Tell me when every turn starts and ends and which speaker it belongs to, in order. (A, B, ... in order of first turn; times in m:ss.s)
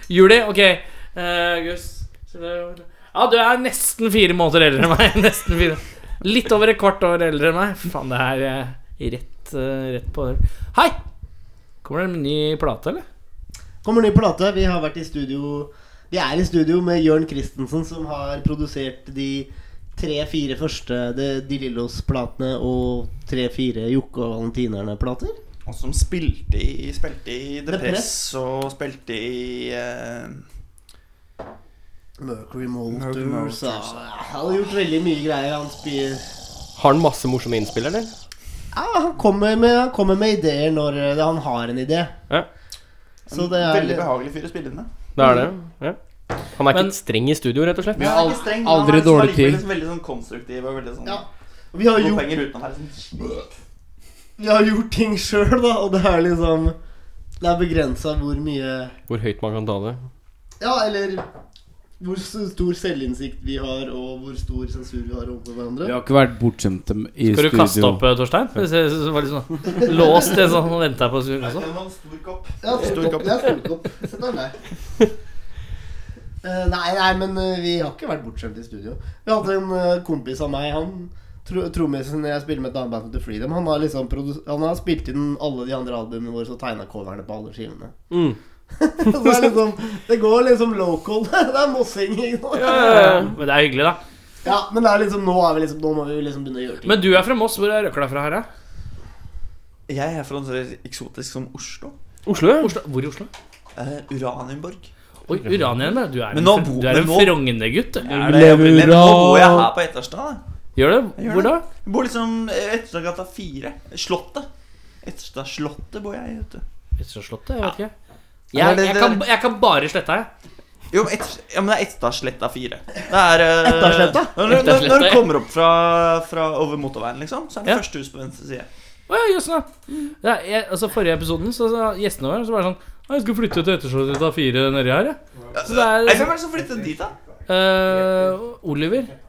0:00.1-0:10.9 A
0:11.8-0:13.0 A
0:13.8-0:25.4 B
0:25.6-0:30.4 C
0:27.7-0:28.2 B
0:32.2-0:36.2 B
0:32.9-0:34.1 C
0:36.8-0:38.1 D
0:38.7-0:42.1 B
0:43.3-0:44.9 C
0:43.3-0:44.1 B
0:45.2-0:46.0 D
0:45.2-0:45.5 B
0:46.6-0:48.0 D
0:46.7-0:47.0 A
0:48.0-0:49.6 E
0:48.0-0:51.2 C
0:51.0-0:52.4 B
0:51.9-0:53.5 C
0:54.4-0:56.8 B
0:57.4-0:58.9 B
0:59.1-1:00.0 D
1:00.6-1:01.2 B
1:02.0-1:05.9 B
1:05.8-1:08.0 E
1:07.3-1:11.6 A
1:11.4-1:13.5 C
1:12.6-1:14.5 B
1:16.4-1:28.0 B
1:28.1-1:28.4 D
1:28.7-1:33.2 B
1:32.6-1:34.0 A
1:32.6-1:33.3 D
1:34.4-1:37.2 B
1:36.8-1:38.5 A
1:39.9-1:42.0 C
1:42.2-1:42.7 D
1:42.6-1:43.3 A
1:43.8-1:44.9 C
1:45.3-1:48.3 A
1:46.3-1:47.5 C
1:48.0-1:50.4 C
1:48.0-1:49.7 E
1:50.8-1:51.6 A
1:51.2-1:54.5 C
1:55.0-1:56.6 C
1:57.0-1:57.9 A
1:58.5-2:00.3 A
1:58.5-1:59.2 C
2:00.9-2:08.7 C
2:03.6-2:04.5 B
2:04.4-2:05.2 A
2:09.1-2:09.7 A
2:10.2-2:16.3 A
2:15.5-2:17.1 C
2:17.5-2:19.1 A